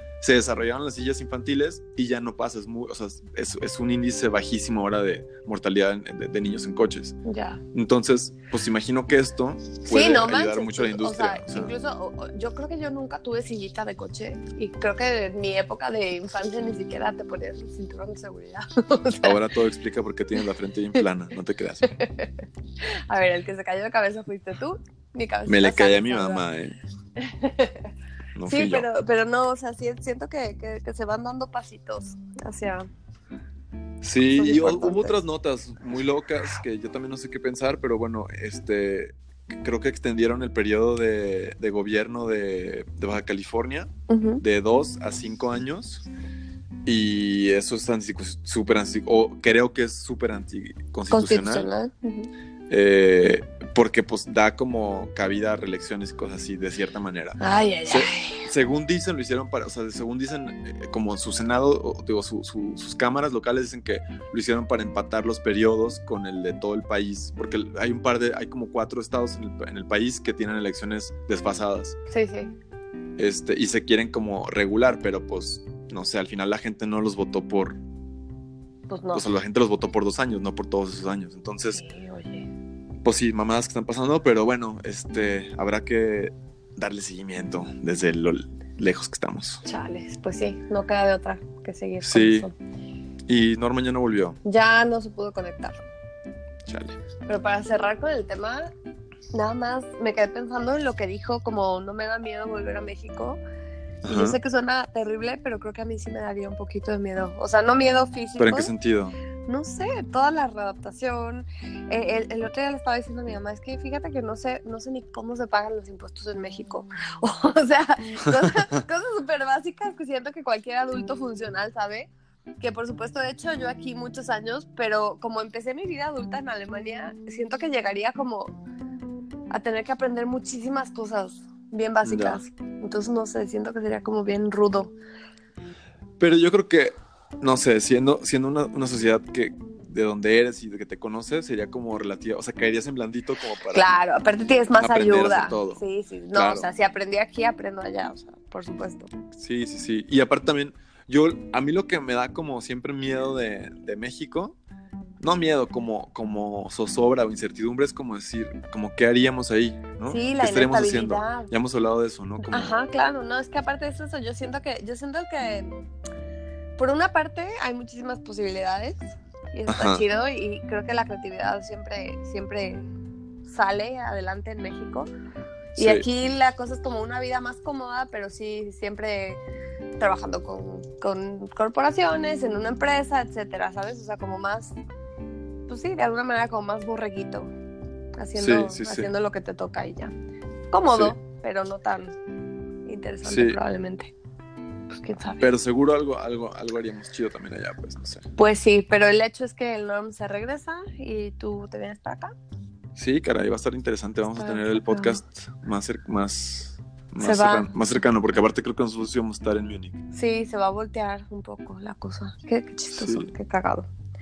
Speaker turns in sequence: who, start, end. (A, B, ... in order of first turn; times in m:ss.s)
0:00.2-0:07.2 A
0:07.2-0:07.6 B
0:07.7-0:11.7 A
0:09.8-0:19.4 B
0:19.2-0:21.9 A
0:21.9-0:22.3 B
0:23.1-0:26.4 B
0:25.4-0:26.8 A
0:27.2-0:27.9 B
0:28.3-0:28.9 A
0:28.4-0:32.9 B
0:34.0-0:46.0 A
0:34.4-0:35.2 B
0:44.1-0:44.4 B
0:46.8-0:51.7 A
0:51.1-0:52.3 B
0:52.7-1:12.0 A
0:57.4-0:58.4 B
1:12.1-1:12.5 B
1:13.2-1:17.8 A
1:18.9-1:19.3 B
1:19.1-1:21.8 A
1:21.7-1:22.5 B
1:23.0-1:29.6 A
1:29.6-1:32.5 B
1:32.0-1:32.5 A
1:33.3-1:34.4 A
1:34.4-1:35.9 B
1:36.6-1:37.0 A
1:37.2-1:38.7 B
1:39.3-1:43.4 B
1:44.0-1:44.4 A
1:44.0-1:48.7 B
1:48.4-1:49.2 A
1:49.5-2:08.6 B
2:09.5-2:14.9 B
2:12.0-2:12.4 A
2:16.2-2:23.9 A
2:23.7-2:29.1 B
2:24.7-2:25.8 A
2:26.3-2:26.7 A
2:29.3-2:34.6 A
2:35.2-2:42.8 A
2:40.1-2:41.5 B
2:42.4-2:45.7 B
2:46.8-2:52.9 B
2:49.7-2:50.0 A
2:53.4-2:55.1 B
2:55.7-2:56.0 A
2:55.8-2:59.4 B
3:00.0-3:04.7 B
3:05.7-3:07.5 B
3:08.2-3:10.1 B
3:08.4-3:09.1 A
3:10.7-3:12.2 B
3:12.8-3:14.1 B
3:13.2-3:13.6 A
3:15.0-3:15.5 B
3:15.4-3:18.2 A
3:18.4-3:22.3 B
3:23.0-3:30.0 A
3:24.3-3:25.2 B
3:27.2-3:27.8 B
3:30.1-3:33.9 B
3:32.9-3:33.3 A